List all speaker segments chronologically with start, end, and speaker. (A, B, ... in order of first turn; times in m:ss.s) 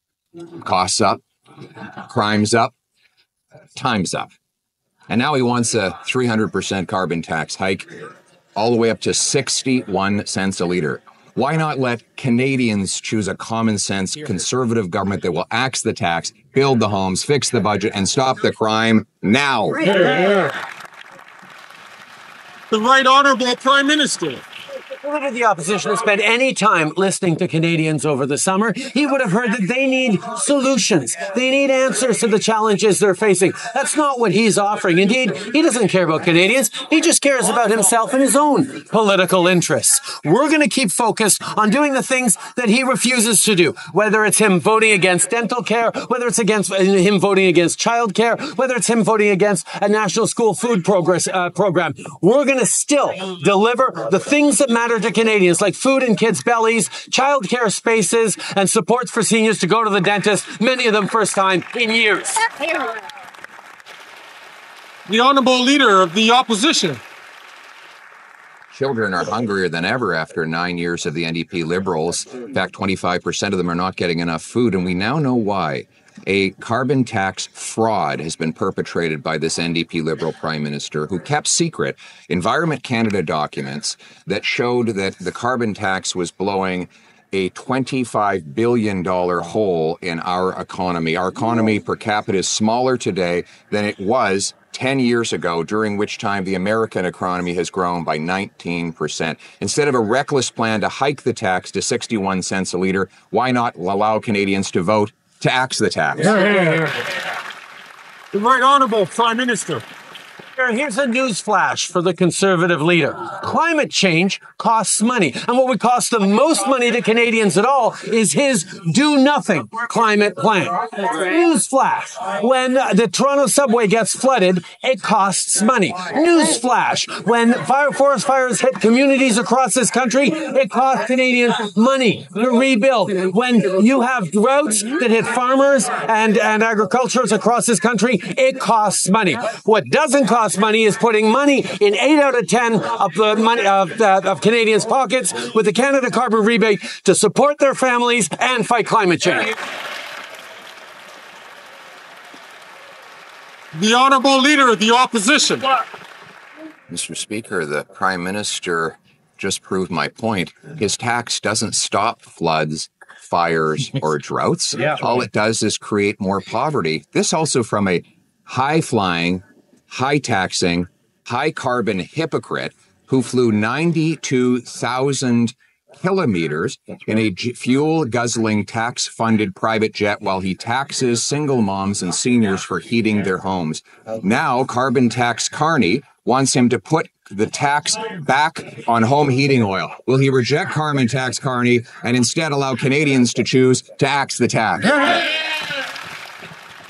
0:00.6-0:01.2 A
0:02.1-0:02.7 A
0:03.8-0:04.3 A
0:05.1-0:07.9 A
0:08.6-0:20.2 A
0:22.7-0:24.4 B
0:24.9-1:02.9 C
1:05.0-1:07.0 B
1:08.7-1:46.5 A
1:46.5-1:46.9 B
1:48.3-1:49.8 B
1:50.6-2:29.5 C
2:33.7-2:35.8 B
2:36.9-3:15.3 A